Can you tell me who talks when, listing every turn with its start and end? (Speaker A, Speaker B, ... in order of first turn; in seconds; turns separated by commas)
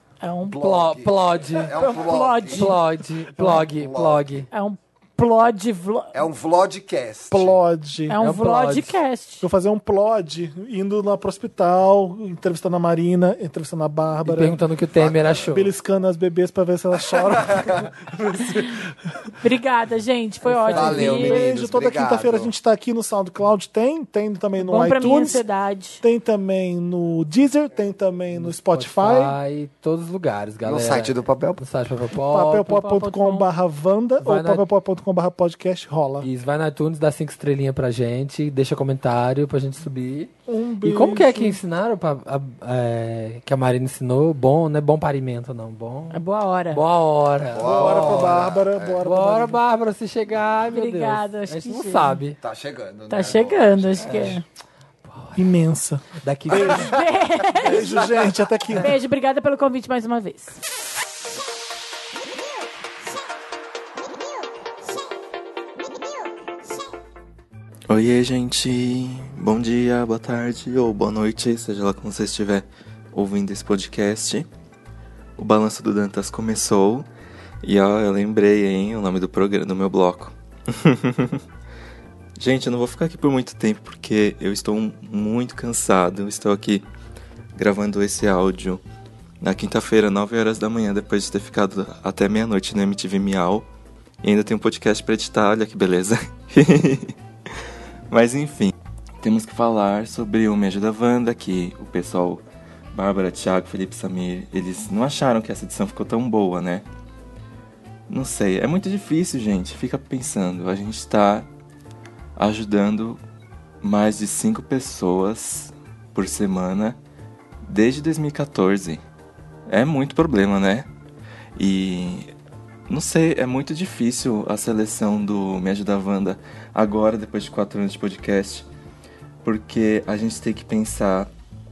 Speaker A: 0.2-0.6, Speaker B: 0.5-2.8, Speaker C: 0.6-1.8, Speaker A: 1.8-2.8, Speaker C: 2.5-4.5, Speaker B: 3.4-4.5, Speaker A: 4.5-6.2, Speaker B: 6.1-7.6, Speaker D: 7.3-8.2, Speaker A: 8.1-9.4, Speaker C: 8.2-9.0, Speaker D: 9.4-14.6, Speaker C: 14.2-15.7, Speaker B: 15.0-15.4, Speaker D: 15.4-18.9, Speaker A: 19.4-21.4, Speaker C: 20.4-21.4, Speaker B: 20.7-22.5, Speaker D: 21.1-25.4, Speaker A: 24.6-26.0, Speaker D: 26.0-29.3, Speaker C: 28.3-32.9, Speaker B: 30.6-31.6, Speaker D: 32.3-36.3, Speaker A: 32.8-33.5, Speaker C: 34.2-34.6, Speaker C: 36.2-40.3, Speaker D: 40.5-41.6, Speaker C: 40.8-46.2, Speaker A: 46.1-46.8, Speaker C: 46.7-48.4, Speaker B: 47.5-49.0, Speaker D: 47.5-49.6, Speaker C: 49.0-52.4, Speaker A: 50.7-52.2, Speaker B: 52.4-54.4, Speaker A: 53.1-54.4, Speaker C: 54.0-54.4, Speaker C: 55.0-55.5, Speaker D: 55.4-57.0, Speaker C: 56.2-56.9, Speaker A: 56.6-58.0, Speaker D: 57.5-59.0, Speaker A: 58.8-60.6, Speaker E: 67.9-74.5, Speaker E: 75.4-77.0, Speaker E: 77.6-81.4, Speaker E: 82.4-86.8, Speaker E: 87.5-88.8, Speaker E: 89.4-93.7, Speaker E: 94.2-97.1, Speaker E: 98.1-102.4, Speaker E: 102.9-106.8, Speaker E: 108.1-111.5, Speaker E: 112.3-113.2, Speaker E: 113.8-117.0, Speaker E: 117.6-119.0, Speaker E: 119.7-120.9, Speaker E: 121.6-122.3, Speaker E: 122.9-128.7, Speaker E: 129.4-131.3